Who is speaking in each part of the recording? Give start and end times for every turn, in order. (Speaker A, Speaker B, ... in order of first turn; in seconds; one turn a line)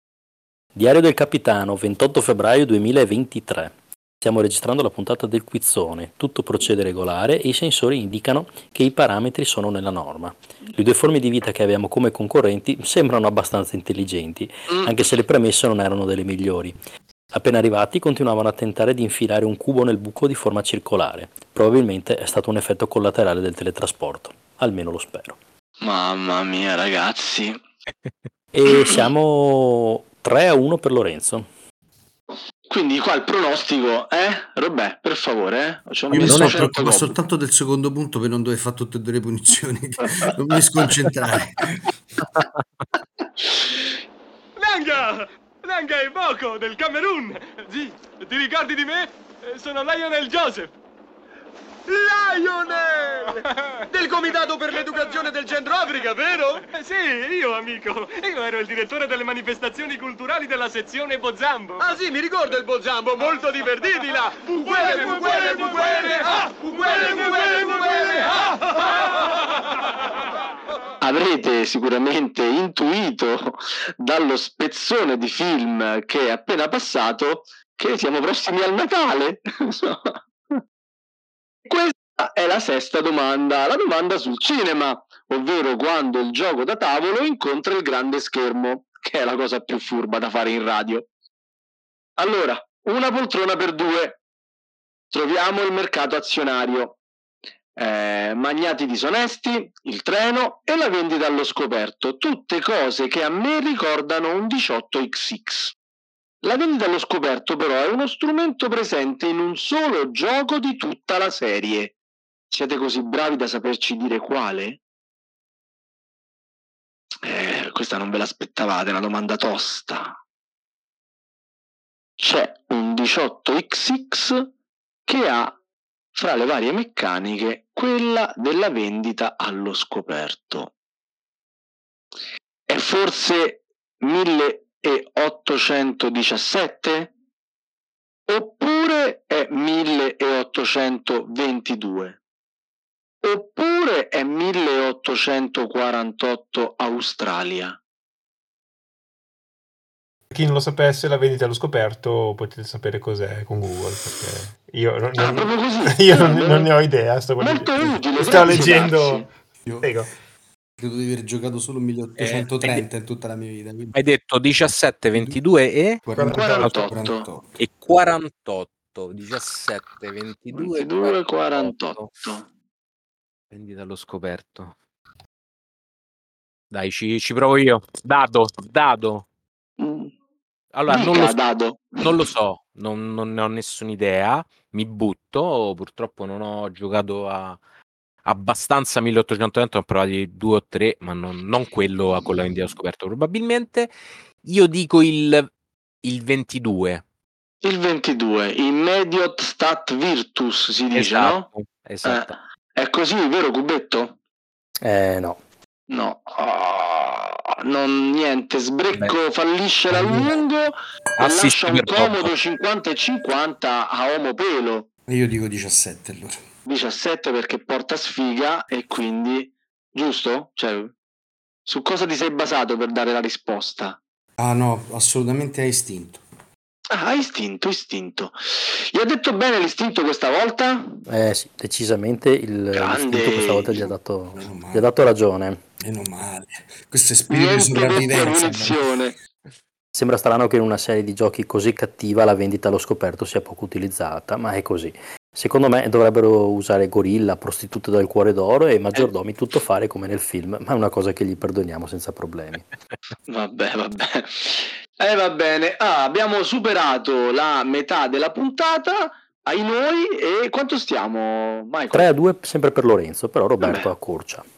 Speaker A: 0.8-16.7
Speaker A: 17.3-25.4
Speaker B: 25.8-27.6
Speaker A: 28.5-31.5
Speaker B: 28.7-29.0
Speaker B: 32.7-37.1
Speaker C: 36.1-42.2
Speaker D: 36.2-37.0
Speaker E: 44.6-50.7
Speaker E: 51.9-69.1
Speaker B: 71.0-80.6
Speaker B: 81.7-91.1
Speaker B: 92.2-94.2
Speaker B: 95.1-97.0
Speaker B: 97.8-105.8
Speaker B: 106.4-111.9
Speaker B: 112.5-114.8
Speaker B: 117.2-120.2
Speaker B: 122.2-124.5
Speaker B: 125.1-125.6
Speaker B: 126.2-130.7
Speaker B: 132.7-137.1
Speaker B: 138.3-142.2
Speaker B: 143.2-147.8
Speaker F: 150.3-160.1
Speaker B: 155.2-156.7
Speaker B: 157.4-159.3
Speaker C: 159.7-159.9
Speaker C: 160.8-164.0
Speaker D: 162.2-162.8
Speaker D: 163.9-166.0
Speaker C: 166.0-167.5
Speaker F: 166.2-166.9
Speaker B: 166.3-167.3
Speaker D: 167.6-172.1
Speaker B: 170.5-172.5
Speaker D: 173.5-174.8
Speaker D: 176.7-179.3
Speaker B: 179.8-180.1
Speaker D: 180.8-181.4
Speaker B: 180.9-182.2
Speaker D: 182.0-187.6
Speaker D: 188.3-193.9
Speaker D: 194.4-195.5
Speaker D: 196.0-197.0
Speaker B: 197.6-201.5
Speaker D: 201.0-202.3
Speaker B: 202.1-204.2
Speaker A: 204.8-205.4
Speaker B: 205.9-214.9
Speaker C: 209.9-210.4
Speaker D: 211.2-212.3
Speaker C: 215.1-216.4
Speaker B: 216.7-220.9
Speaker B: 221.7-224.0
Speaker C: 224.4-226.2
Speaker B: 226.9-231.0
Speaker A: 231.1-235.6
Speaker B: 232.7-233.9
Speaker C: 234.3-234.9
Speaker C: 235.8-239.0
Speaker B: 237.3-239.2
Speaker A: 239.9-252.7
Speaker B: 253.3-262.1
Speaker A: 261.9-264.4
Speaker B: 263.6-263.9